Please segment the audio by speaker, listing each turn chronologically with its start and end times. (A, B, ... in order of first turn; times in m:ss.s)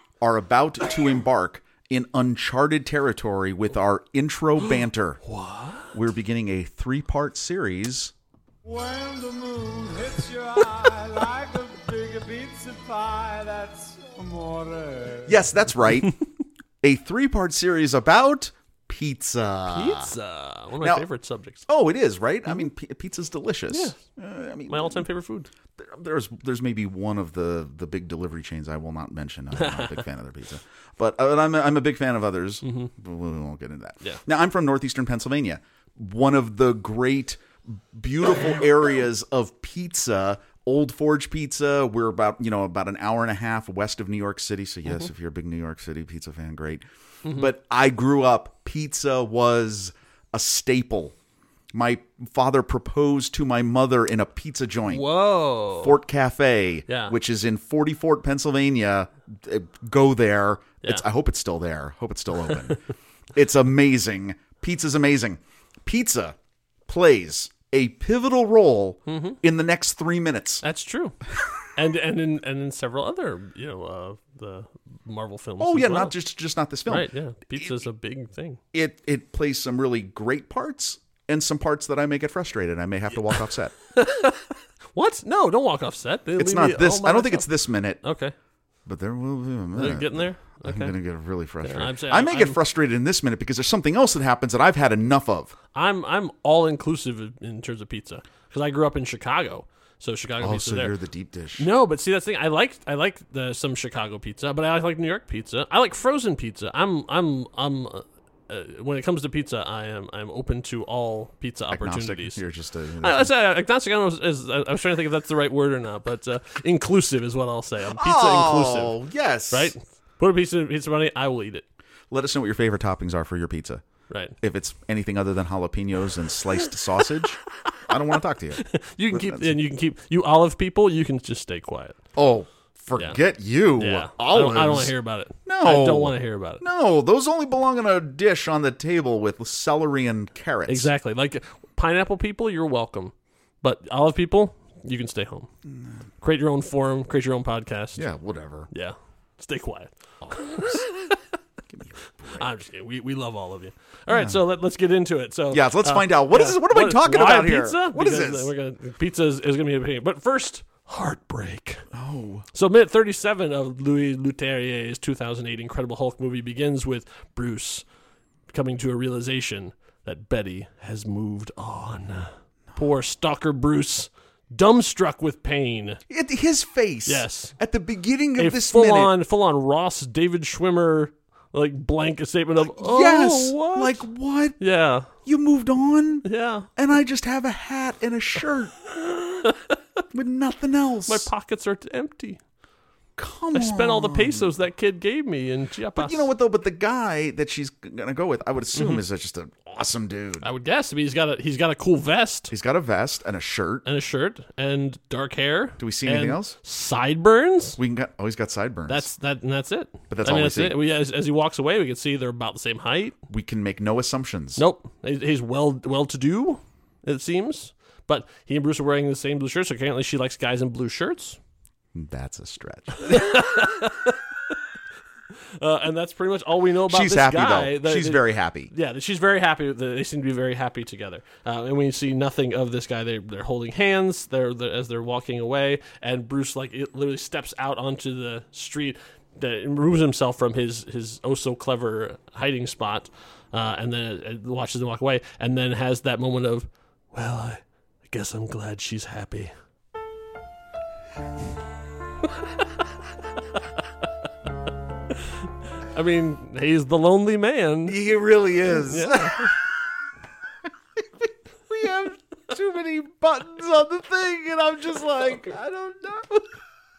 0:00.2-0:05.2 A
0:04.6-0:05.9 B
0:05.9-0:08.1 A
0:08.6-0:15.5 C
0:15.3-0:16.2 A
0:16.8-0:20.1 A
0:19.7-0:21.7 B
0:20.8-0:21.1 A
0:21.7-0:25.1 A
0:23.7-0:24.0 B
0:24.7-0:25.5 B
0:25.8-0:51.2 A
0:29.6-0:30.0 B
0:32.6-0:32.9 B
0:47.2-0:47.5 B
0:51.7-0:55.1 A
0:54.9-0:56.0 B
0:55.8-1:02.8 A
0:56.9-0:57.1 B
1:03.4-1:06.4 A
1:06.9-1:10.6 A
1:09.1-1:09.4 B
1:10.6-1:11.2 B
1:11.8-1:16.2 B
1:15.6-1:17.8 A
1:16.9-1:18.6 B
1:18.7-1:23.8 A
1:23.9-1:27.5 B
1:26.4-1:28.0 A
1:28.0-1:28.3 B
1:28.9-1:35.6 A
1:29.8-1:31.0 B
1:31.6-1:32.6 B
1:35.8-1:41.0 B
1:40.4-1:41.7 A
1:41.6-1:52.4 B
1:51.7-1:53.3 A
1:53.0-1:59.0 B
1:57.9-1:59.7 A
1:59.5-2:01.6 B
2:02.1-2:03.8 A
2:04.4-2:09.6 A
2:08.6-2:12.0 B
2:12.2-2:14.9 A
2:13.8-2:16.6 B
2:15.5-2:20.9 A
2:20.7-2:25.5 B
2:26.2-2:28.1 B
2:28.0-2:28.7 A
2:28.7-2:31.2 B
2:30.2-2:30.9 A
2:31.7-2:32.5 A
2:32.4-2:41.8 B
2:34.1-2:34.4 A
2:35.5-2:38.5 A
2:41.9-2:42.5 A
2:42.5-2:47.8 B
2:48.5-2:56.0 B
2:56.1-2:59.1 A
2:57.1-2:57.5 B
2:58.4-3:04.1 B
3:02.6-3:04.6 A
3:04.6-3:05.1 B
3:05.2-3:08.8 A
3:06.2-3:06.7 B
3:09.0-3:09.8 B
3:10.1-3:11.3 A
3:11.1-3:12.4 B
3:13.2-3:14.5 A
3:13.5-3:16.3 B
3:16.0-3:20.5 A
3:18.7-3:19.0 B
3:20.4-3:22.5 B
3:22.5-3:23.8 A
3:23.8-3:27.8 B
3:25.8-3:26.6 A
3:27.8-3:29.1 A
3:28.9-3:33.2 B
3:30.1-3:30.8 A
3:33.3-3:34.6 A
3:34.6-3:41.4 B
3:41.9-3:43.4 A
3:43.0-3:44.2 B
3:45.6-4:09.5 B
3:46.9-3:48.7 A
4:15.9-4:18.0 B
4:17.9-4:19.7 A
4:18.9-4:19.5 B
4:21.0-4:26.5 A